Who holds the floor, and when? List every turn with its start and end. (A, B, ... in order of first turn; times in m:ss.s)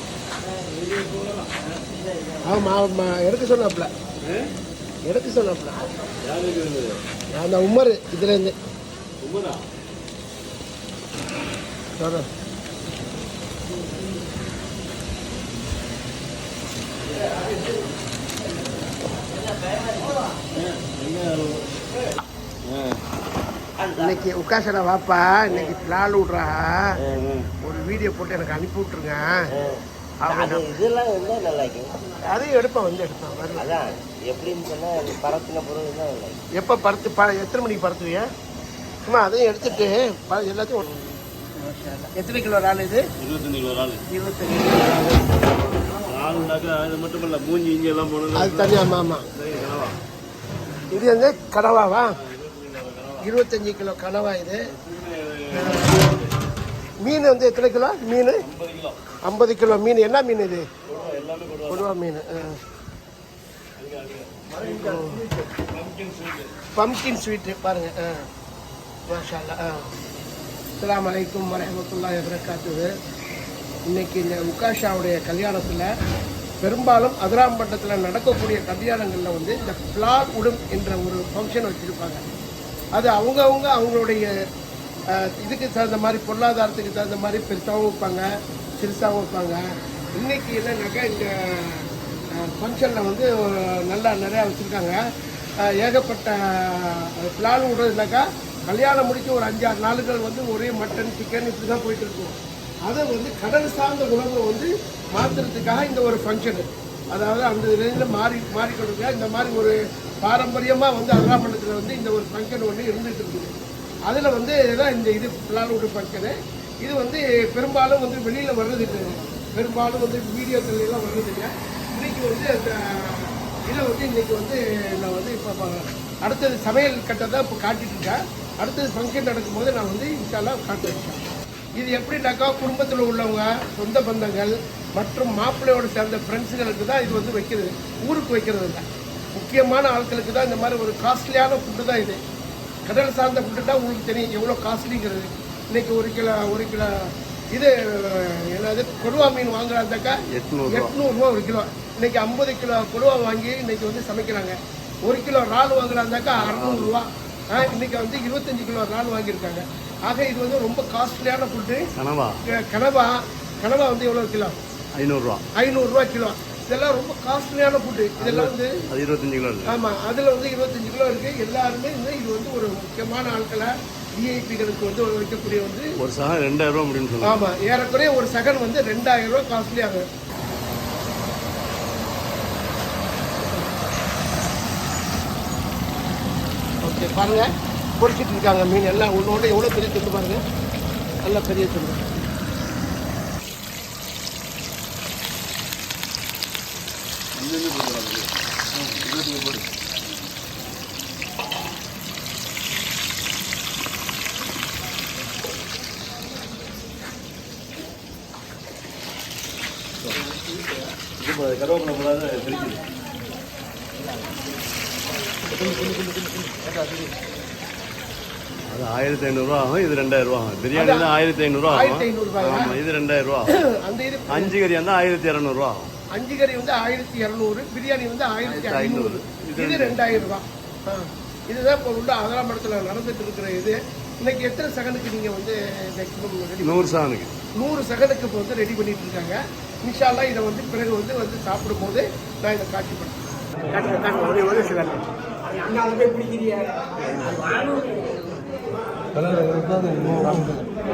0:00.9-0:01.3 A
0:02.5-0:03.9 B
0:05.0-0:05.8 B
0:06.2-0:07.0 A
0:07.3-0:08.5 B
0:09.2-0:09.6 A
0:12.0-0:12.2 B
0:20.6-0:21.7 A
0:22.7-0:23.0 A
0:23.8-0:24.1 C
0:24.0-0:27.0 B
0:27.1-0:27.5 A
0:27.6-0:29.4 B
0:29.6-0:31.9 C
0:30.2-0:30.7 B
0:32.3-0:33.8 B
0:33.6-0:36.4 C
0:36.6-0:38.2 B
0:39.1-0:40.9 B
0:42.1-0:43.0 B
0:43.2-0:44.0 A
0:44.1-0:45.2 B
0:46.0-0:50.0 A
0:48.3-0:49.2 B
0:50.9-0:52.2 B
0:52.2-0:53.3 A
0:53.2-0:54.6 B
0:54.7-0:56.3 A
0:55.5-0:56.0 B
0:57.0-0:58.4 B
0:58.4-0:59.0 A
0:59.2-1:00.6 B
1:00.8-1:01.9 A
1:01.7-1:02.6 B
1:03.8-1:06.5 A
1:04.6-1:05.2 B
1:06.7-1:08.2 B
1:09.1-1:09.9 B
1:10.8-1:12.9 B
1:13.9-1:15.9 B
1:16.6-1:22.2 B
1:22.9-1:24.3 B
1:25.1-1:28.2 B
1:28.8-1:29.6 B
1:30.2-1:35.0 B
1:35.6-1:53.5 B
1:54.1-2:11.2 B
2:11.8-2:18.8 B
2:19.4-2:22.2 B
2:22.9-2:26.9 B
2:27.5-2:41.8 B
2:30.3-2:30.9 A
2:36.4-2:36.9 A
2:42.0-2:42.4 A
2:42.6-2:44.6 B
2:45.0-2:45.4 A
2:45.6-2:48.7 B
2:48.2-2:49.8 A
2:49.6-2:55.9 B
2:56.0-2:57.4 A
2:57.2-3:00.0 B
3:06.8-3:07.5 B
3:08.0-3:10.4 B
3:11.2-3:12.0 B
3:17.3-3:19.7 A
3:31.2-3:32.8 A
3:35.7-3:36.6 A
3:38.7-3:43.5 A
3:40.7-3:41.1 B
3:41.7-3:42.8 B
3:43.5-3:44.5 B
3:44.3-3:45.9 A
3:46.1-3:56.8 B
3:48.4-3:50.0 A
3:56.6-3:57.3 A
3:57.6-4:03.2 B
4:03.7-4:05.0 B
4:05.8-4:06.4 B
4:09.8-4:10.5 B